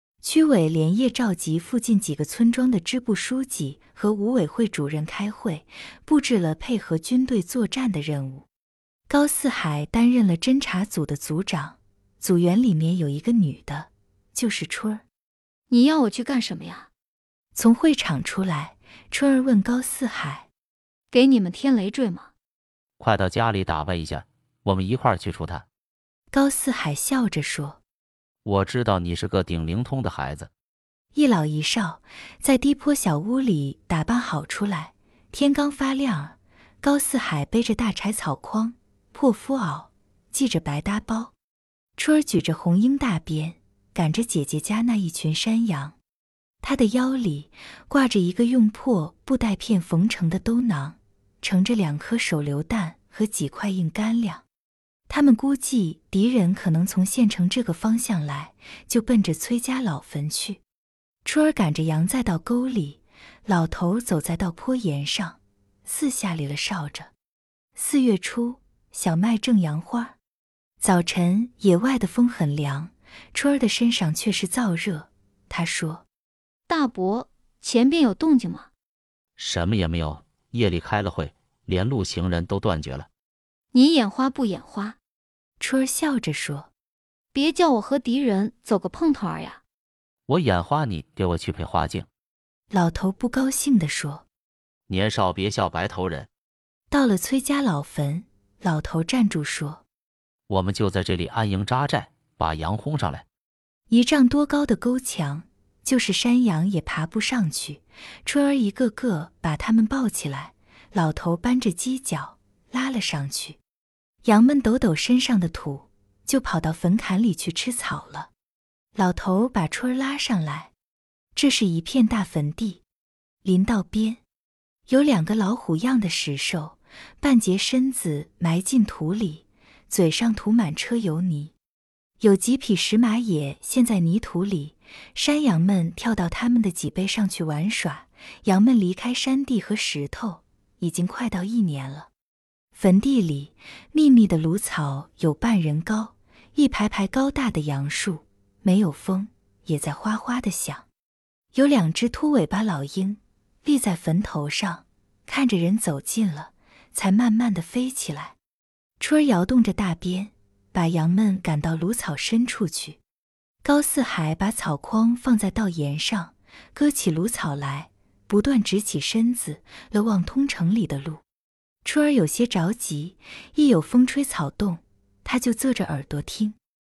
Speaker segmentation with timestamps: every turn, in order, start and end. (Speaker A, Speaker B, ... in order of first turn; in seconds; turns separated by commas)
Speaker A: 0.2-8.5, Speaker A: 9.1-15.0, Speaker B: 15.7-16.9, Speaker A: 17.6-20.5, Speaker B: 21.1-22.3, Speaker C: 23.0-25.6, Speaker A: 26.3-27.8, Speaker C: 28.4-30.5, Speaker A: 31.1-41.3, Speaker A: 42.0-46.0, Speaker A: 46.6-54.4, Speaker A: 55.1-60.6, Speaker A: 61.2-67.1, Speaker A: 67.8-70.2, Speaker A: 70.8-76.0, Speaker B: 76.7-78.7, Speaker C: 79.4-83.1, Speaker B: 83.7-85.0, Speaker A: 85.6-86.7, Speaker B: 87.3-89.6, Speaker C: 90.3-92.1, Speaker A: 92.7-94.2, Speaker C: 94.9-96.3, Speaker A: 96.9-99.8, Speaker C: 100.5-103.2, Speaker A: 103.9-113.6, Speaker A: 114.2-118.3, Speaker A: 119.0-120.7, Speaker A: 121.3-122.8, Speaker A: 123.4-124.2, Speaker A: 124.9-131.5, Speaker A: 132.2-142.1, Speaker A: 142.7-150.9, Speaker A: 151.5-158.4, Speaker A: 159.0-163.0, Speaker A: 163.6-171.2, Speaker A: 171.8-176.6